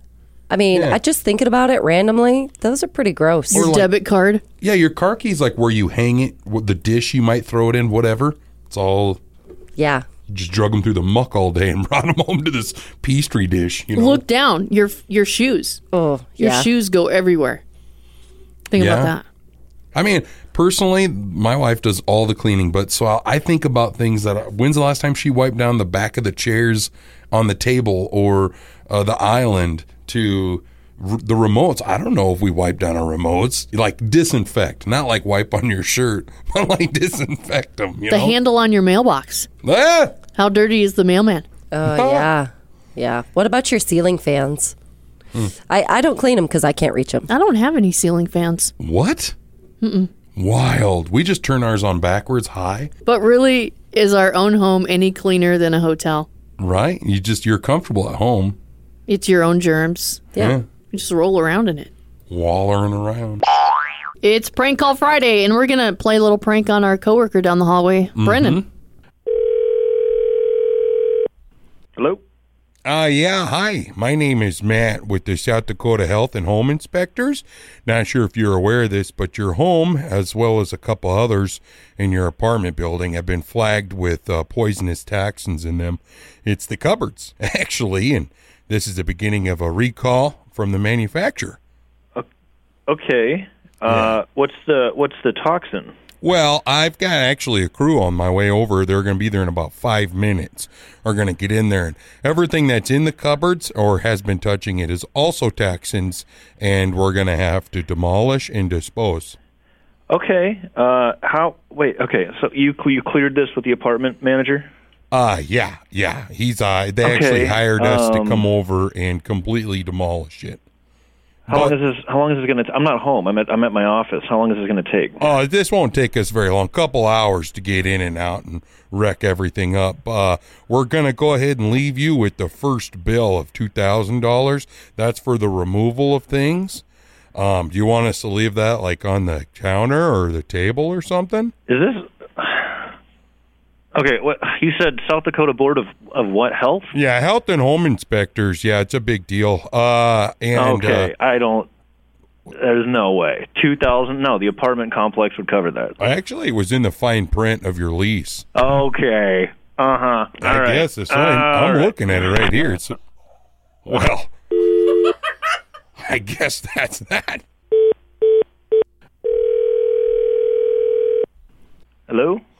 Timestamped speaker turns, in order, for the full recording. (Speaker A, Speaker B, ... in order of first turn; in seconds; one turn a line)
Speaker A: 0.5-3.8
Speaker B: 0.7-1.0
Speaker C: 3.5-4.4
Speaker B: 3.5-3.9
Speaker B: 4.6-9.2
Speaker A: 9.8-10.1
Speaker B: 10.3-14.2
Speaker C: 13.9-15.8
Speaker A: 15.9-16.7
Speaker C: 16.4-17.6
Speaker C: 18.7-19.2
Speaker B: 18.8-19.1
Speaker B: 19.9-38.3
Speaker C: 38.1-39.5
Speaker B: 39.6-40.1
Speaker C: 40.3-41.5
Speaker A: 41.7-44.7
Speaker B: 41.9-42.3
Speaker A: 45.7-47.3
Speaker C: 47.3-48.7
Speaker B: 48.8-49.3
Speaker C: 49.8-50.1
Speaker B: 50.3-52.9
Speaker C: 53.0-56.3
Speaker B: 56.6-58.6
Speaker C: 59.1-60.3
Speaker B: 60.4-60.6
Speaker C: 60.9-61.9
Speaker B: 62.3-63.4
Speaker C: 64.2-68.6
Speaker B: 68.2-68.7
Speaker D: 72.0-72.2
Speaker B: 72.8-91.6
Speaker D: 92.9-95.9
Speaker B: 93.9-94.2
Speaker B: 96.2-109.4
Speaker D: 110.1-114.7
Speaker B: 115.1-120.6
Speaker D: 117.0-118.4
Speaker D: 121.5-125.2
Speaker B: 121.5-121.8
Speaker B: 125.2-136.8
Speaker B: 137.3-141.5
Speaker D: 141.7-142.8
Speaker D: 143.9-146.9
Speaker B: 146.9-151.1
Speaker D: 150.5-151.7
Speaker D: 152.5-155.9
Speaker B: 156.0-158.5
Speaker D: 158.5-161.9
Speaker B: 160.4-162.9
Speaker B: 163.8-164.3
Speaker B: 166.0-167.4
Speaker D: 172.1-172.4